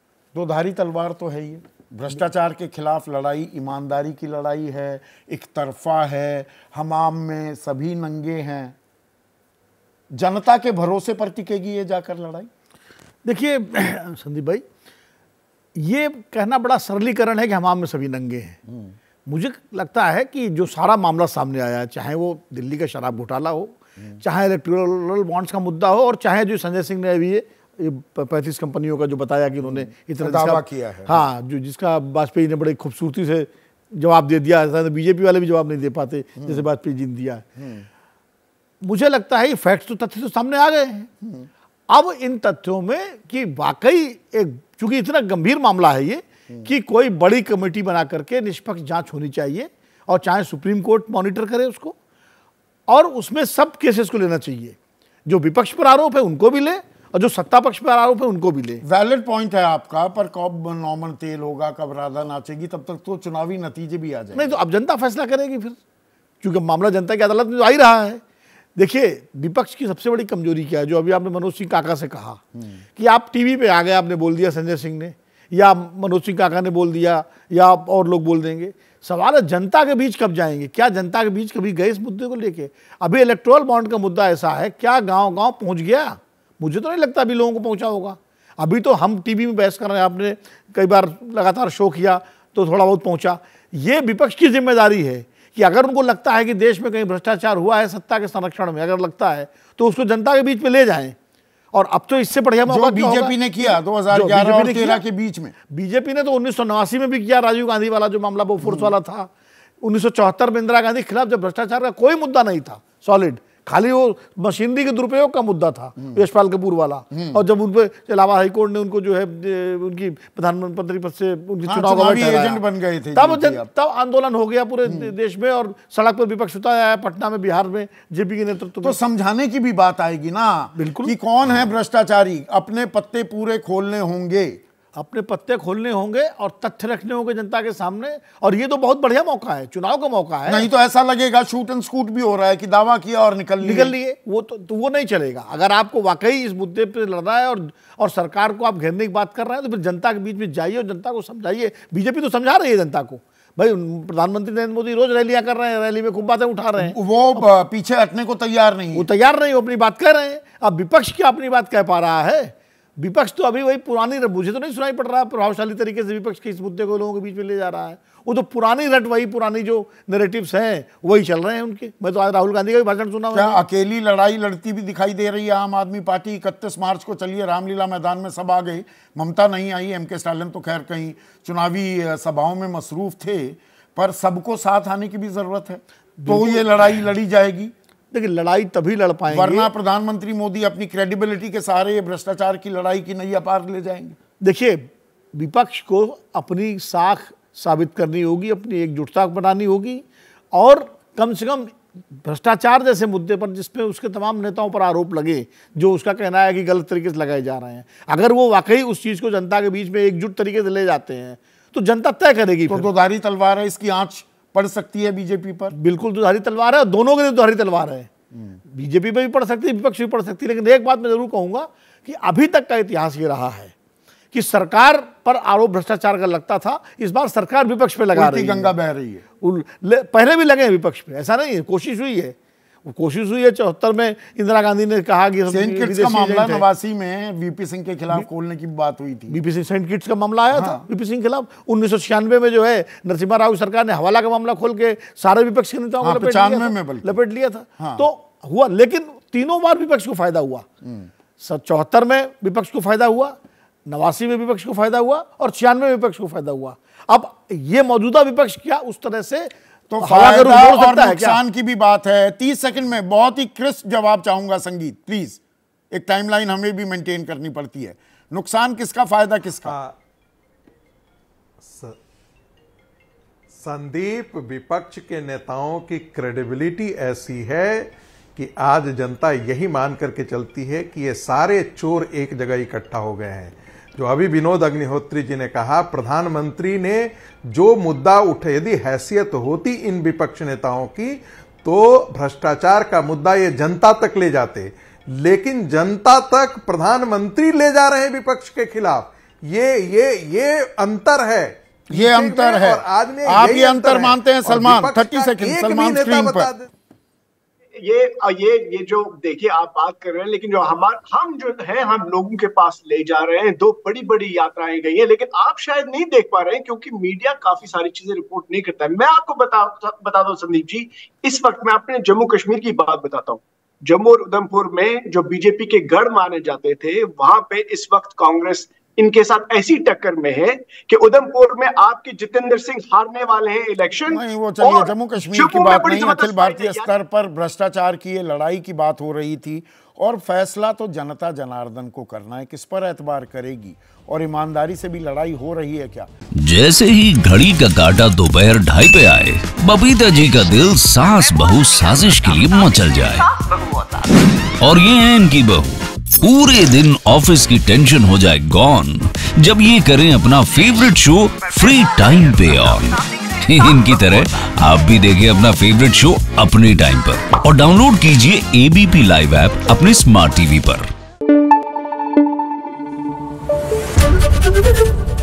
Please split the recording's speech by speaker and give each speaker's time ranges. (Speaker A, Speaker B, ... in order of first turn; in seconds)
Speaker A: 0.3-8.7, 10.1-12.5, 18.7-18.9, 29.6-31.3, 36.4-36.6, 37.5-37.9, 41.2-41.5, 58.8-64.5, 102.7-105.5, 108.6-108.9, 117.1-117.4, 121.7-123.7, 124.8-125.1, 128.8-134.6, 140.4-143.9, 156.8-159.1, 173.3-187.7, 189.3-194.2, 212.7-215.7, 228.1-229.2, 235.5-239.4, 240.5-240.8, 246.0-247.2, 247.8-248.1, 250.8-251.1, 259.9-269.8, 301.9-306.5, 334.1-346.1
Speaker B: 13.2-14.6, 15.8-18.6, 19.2-37.4, 38.8-41.1, 41.9-51.9, 52.9-58.8, 64.3-65.8, 66.4-68.2, 68.8-72.4, 73.0-101.2, 101.7-105.0, 105.7-109.3, 109.8-122.6, 123.1-129.0, 130.8-131.1, 134.9-140.7, 143.6-157.4, 158.9-173.6, 186.2-187.0, 188.1-189.7, 194.4-212.9, 215.7-218.1, 218.7-223.7, 224.3-228.7, 229.4-236.7, 239.3-250.6, 251.4-261.4
Speaker C: 269.6-269.9, 271.6-272.0, 273.6-306.7
Speaker D: 307.8-336.9
Speaker E: 346.4-353.2, 354.6-370.9